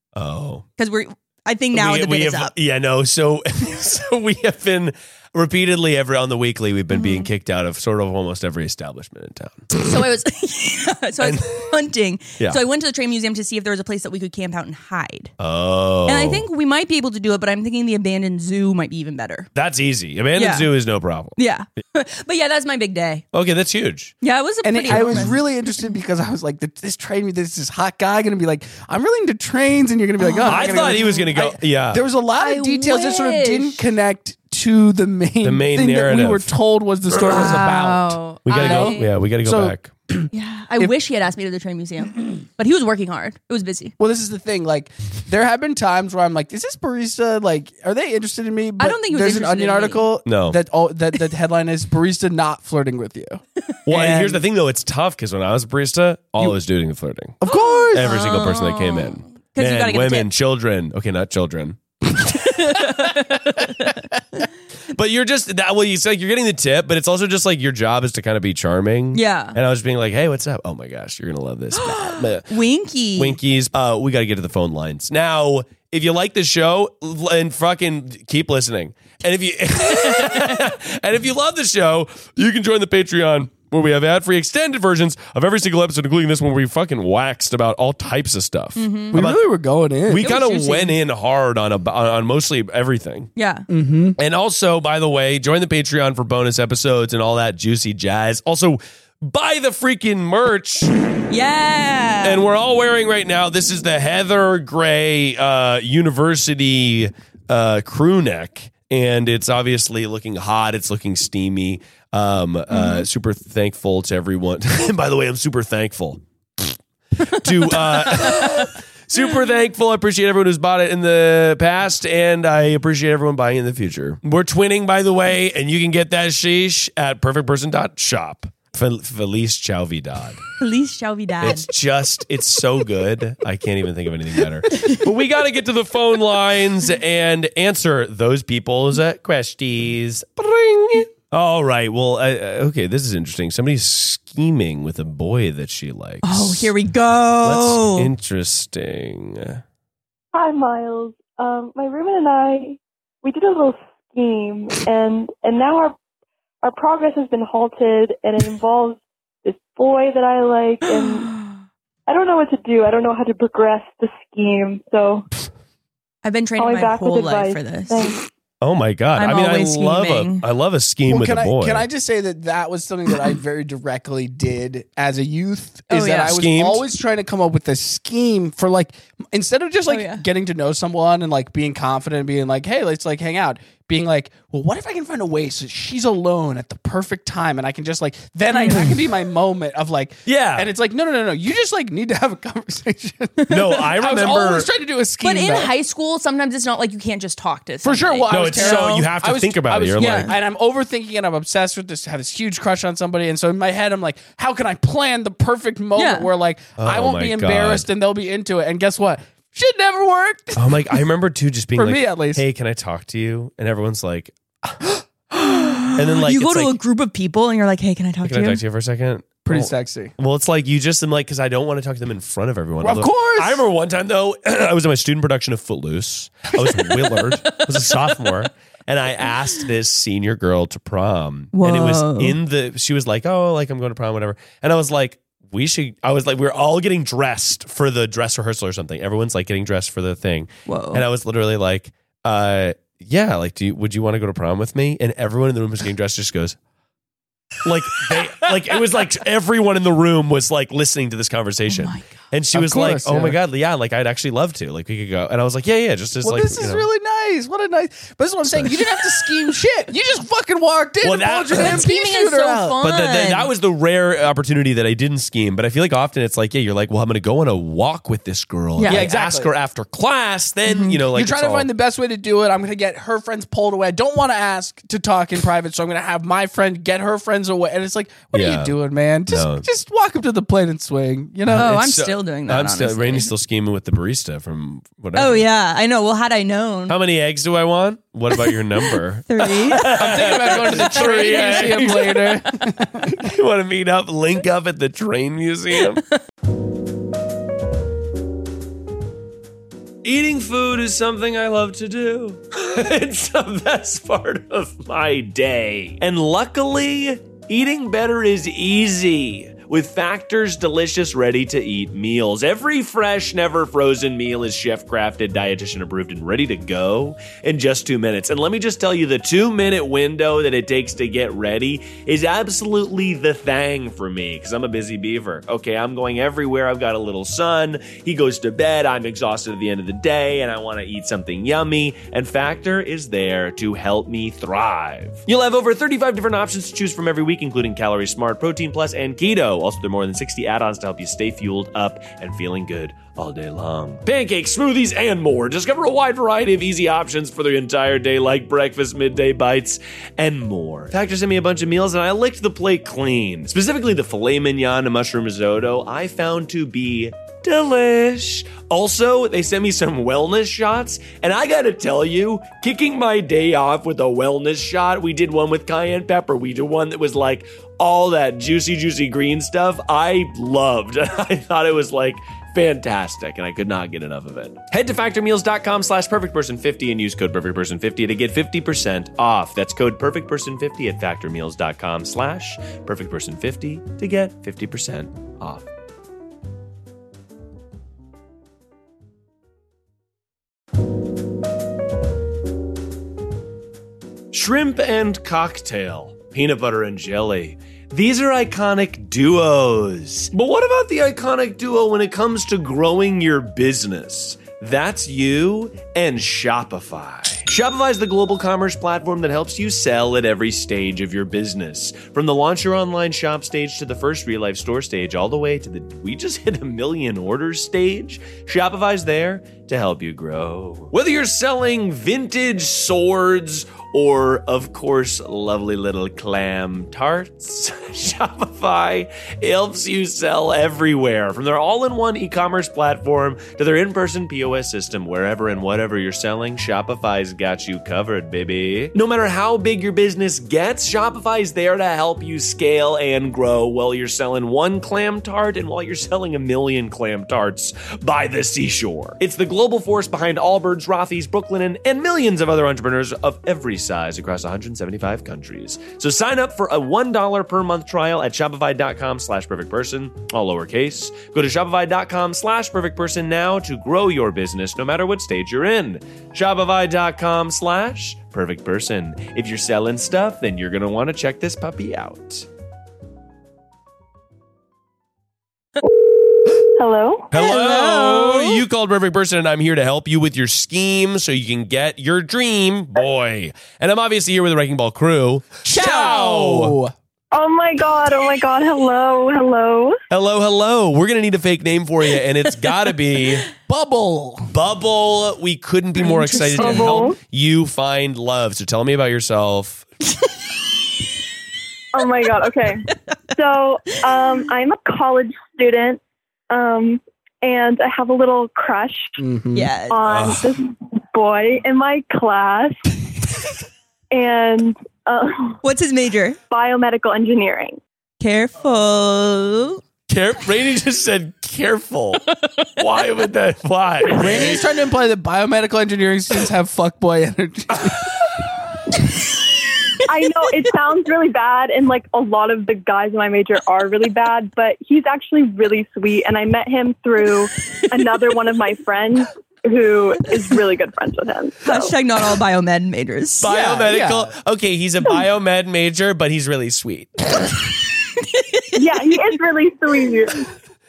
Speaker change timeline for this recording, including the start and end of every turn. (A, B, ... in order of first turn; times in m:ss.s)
0:00.1-0:00.6 A
0:00.8-0:02.5 B
0:01.7-0:09.9 A
0:06.9-0:07.3 B
0:09.7-0:15.3 B
0:11.2-0:11.7 A
0:15.4-0:16.4 A
0:16.0-0:19.5 B
0:19.5-0:21.4 A
0:20.4-0:20.7 B
0:21.4-0:23.2 B
0:23.3-0:24.1 A
0:24.2-0:25.4 B
0:24.6-0:40.9 C
0:24.9-0:25.4 A
0:30.2-0:31.2 B
0:30.4-0:32.0 A
0:32.4-0:33.8 B
0:35.4-0:36.5 A
0:37.2-0:37.6 A
0:37.2-0:39.1 B
0:38.4-0:39.9 A
0:40.3-0:43.9 B
0:44.0-0:53.4 C
0:48.8-0:50.1 B
0:50.2-0:50.6 A
0:53.7-0:54.4 B
0:53.9-0:57.4 A
0:57.4-0:58.2 C
0:57.4-1:00.3 B
0:57.9-1:03.2 A
1:02.3-1:04.4 B
1:04.9-1:12.5 A
1:09.1-1:09.6 B
1:11.7-1:13.4 B
1:13.2-1:29.4 A
1:28.8-1:29.2 B
1:29.1-1:30.4 C
1:30.0-1:33.3 A
1:30.2-1:30.9 B
1:33.4-1:33.6 B
1:33.7-1:34.2 C
1:34.2-1:40.9 A
1:41.3-1:42.4 B
1:42.2-2:10.4 A
1:52.7-1:53.0 B
1:57.4-1:58.6 B
2:10.6-2:11.7 B
2:11.4-2:26.7 A
2:26.2-2:28.1 B
2:27.4-2:29.6 A
2:30.3-2:36.0 D
2:36.6-2:41.3 D
2:42.1-2:45.2 D
2:46.2-2:48.0 B
2:46.6-2:48.2 D
2:48.6-2:51.9 A
2:49.2-2:50.4 B
2:51.1-3:15.7 C
2:55.9-2:56.3 B
2:56.3-2:56.8 A
2:59.9-3:00.2 B
3:08.5-3:08.9 B
3:10.2-3:10.7 A
3:13.5-3:14.7 A
3:15.2-3:19.0 B
3:17.8-3:31.0 C
3:18.3-3:20.4 A
3:20.0-3:20.3 B
3:26.0-3:26.3 B
3:26.8-3:27.9 A
3:30.6-3:34.3 A
3:31.8-3:32.4 C
3:35.3-3:38.6 B
3:35.9-3:36.8 A
3:38.2-4:06.6 A
3:39.4-3:40.1 C
3:42.8-3:43.6 C
3:51.5-3:52.4 B
4:00.7-4:01.0 B
4:07.6-4:16.9 A
4:11.7-4:12.0 B
4:12.5-4:13.4 C
4:16.2-4:22.8 C
4:18.4-4:18.8 A
4:21.0-4:21.8 A
4:21.5-4:23.5 B
4:22.8-4:31.7 A
4:28.8-4:29.0 B
4:28.8-4:29.5 C
4:30.7-4:31.0 B
4:31.1-4:41.8 C
4:38.3-4:39.6 A
4:41.4-4:45.5 A
4:41.5-4:43.3 B
4:45.1-4:47.0 B
4:46.9-4:52.3 A
4:49.3-4:52.3 B
4:49.8-4:53.2 C
4:53.2-4:56.0 A
5:00.0-6:25.7 A
6:34.3-7:52.4 A
7:56.7-7:57.3 D
7:57.3-8:06.8 A
7:57.3-7:58.6 B
8:05.7-8:06.9 C
8:05.7-8:06.1 B
8:07.3-8:10.0 D
8:10.1-8:13.5 A
8:13.6-8:14.5 C
8:14.5-8:19.8 A
8:16.0-8:17.0 B
8:16.6-8:17.2 D
8:21.9-8:29.2 D
8:29.2-8:29.7 C
8:29.5-8:30.0 B
8:29.9-8:32.8 D
8:30.0-8:30.4 A
8:34.1-8:35.6 D
8:35.6-8:36.4 B
8:36.5-8:37.8 D
8:38.2-8:39.8 B
8:40.1-8:42.2 A
8:42.8-8:44.7 A
8:44.1-8:48.0 C
8:50.1-9:01.9 D
9:01.6-9:03.5 B
9:03.4-9:07.6 A
9:03.5-9:04.3 C
9:08.2-9:09.2 B
9:08.7-9:10.5 D